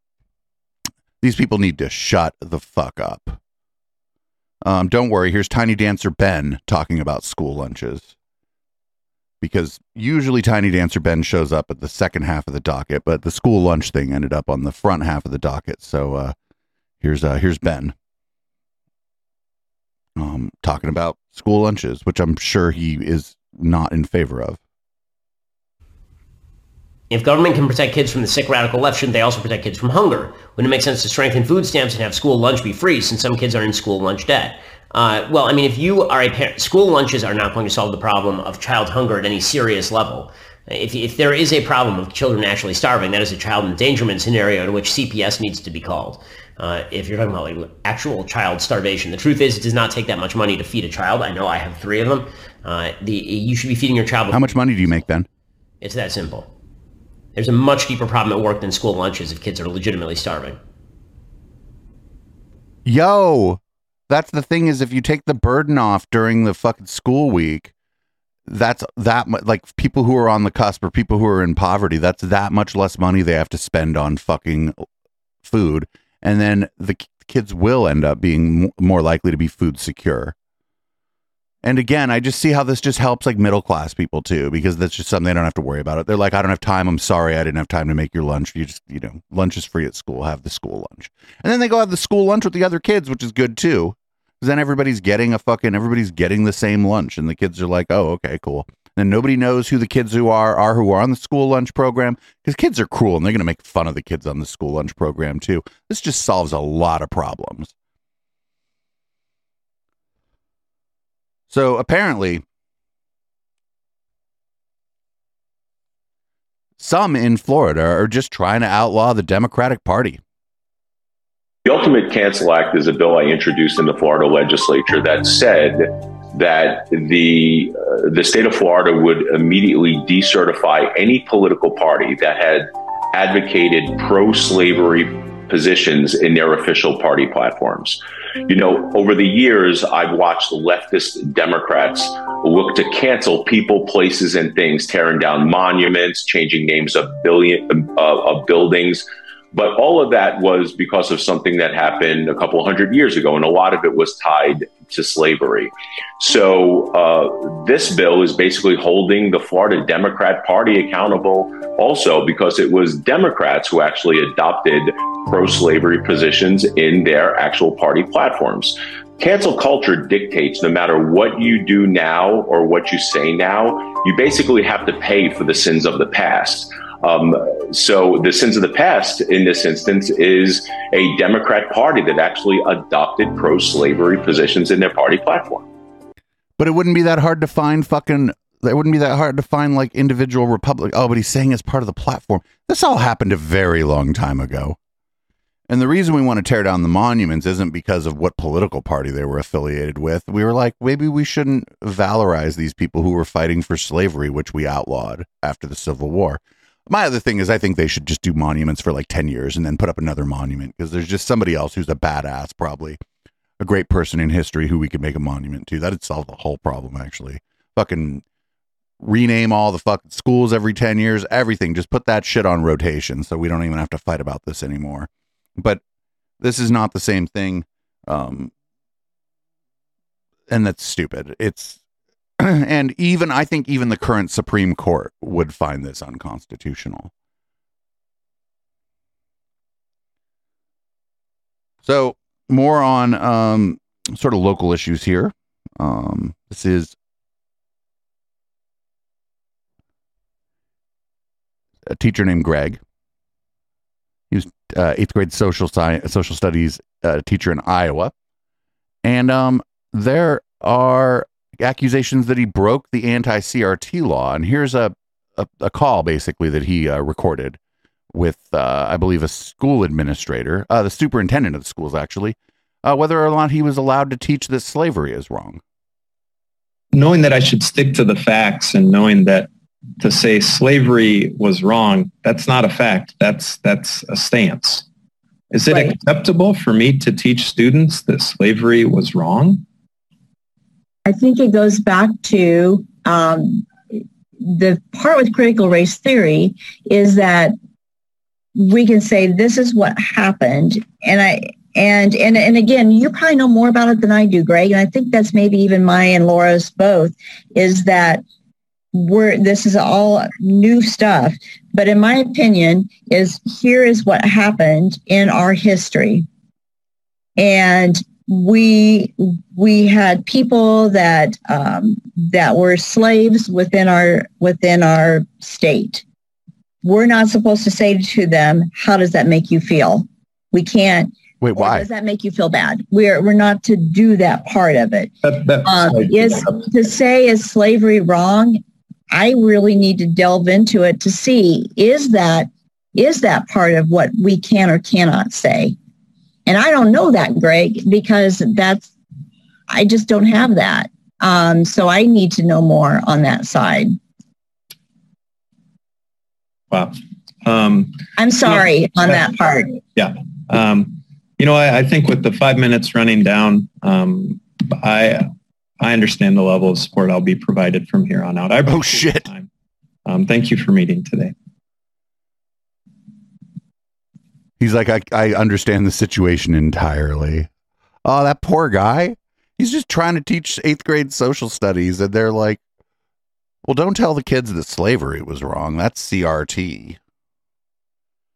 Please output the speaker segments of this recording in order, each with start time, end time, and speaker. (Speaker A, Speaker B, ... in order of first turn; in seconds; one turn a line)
Speaker A: 1.2-3.4
Speaker A: 4.6-8.1
Speaker A: 9.4-16.3
Speaker A: 17.0-17.9
Speaker A: 20.2-24.6
Speaker B: 27.1-55.0
Speaker A: 54.3-55.3
Speaker B: 55.8-56.5
Speaker B: 57.3-60.6
Speaker A: 62.8-67.7
Speaker A: 68.5-74.8
Speaker A: 75.4-80.3
Speaker A: 81.6-107.7
Speaker A: 111.5-112.4
Speaker A: 116.8-120.2
Speaker C: 121.6-185.7
Speaker A: 186.6-194.8
Speaker A: 195.7-213.0
Speaker A: 213.6-218.2
Speaker A: 219.0-225.8
Speaker A: 226.4-228.5
Speaker A: 230.5-231.8
Speaker A: 232.4-237.1
Speaker A: 241.8-246.9
Speaker A: 251.9-252.8
Speaker A: 254.3-258.1
Speaker A: 259.0-267.6
Speaker A: 268.1-275.6
Speaker D: 276.9-279.5
Speaker D: 280.0-284.9
Speaker D: 285.5-289.6
Speaker E: 285.7-285.9
Speaker E: 291.1-293.7
Speaker E: 294.4-297.5
Speaker E: 298.6-308.2
Speaker E: 308.9-316.2
Speaker E: 317.4-326.0
Speaker E: 326.8-335.1
Speaker A: 331.4-331.9
Speaker D: 335.3-336.2
Speaker E: 335.6-345.7
Speaker E: 346.4-348.9
Speaker E: 349.7-353.9
Speaker D: 356.7-358.6
Speaker E: 358.2-359.8
Speaker D: 359.9-369.5
Speaker A: 368.6-369.3
Speaker D: 370.0-371.3
Speaker A: 374.6-377.5
Speaker A: 378.0-382.6
Speaker A: 383.6-387.0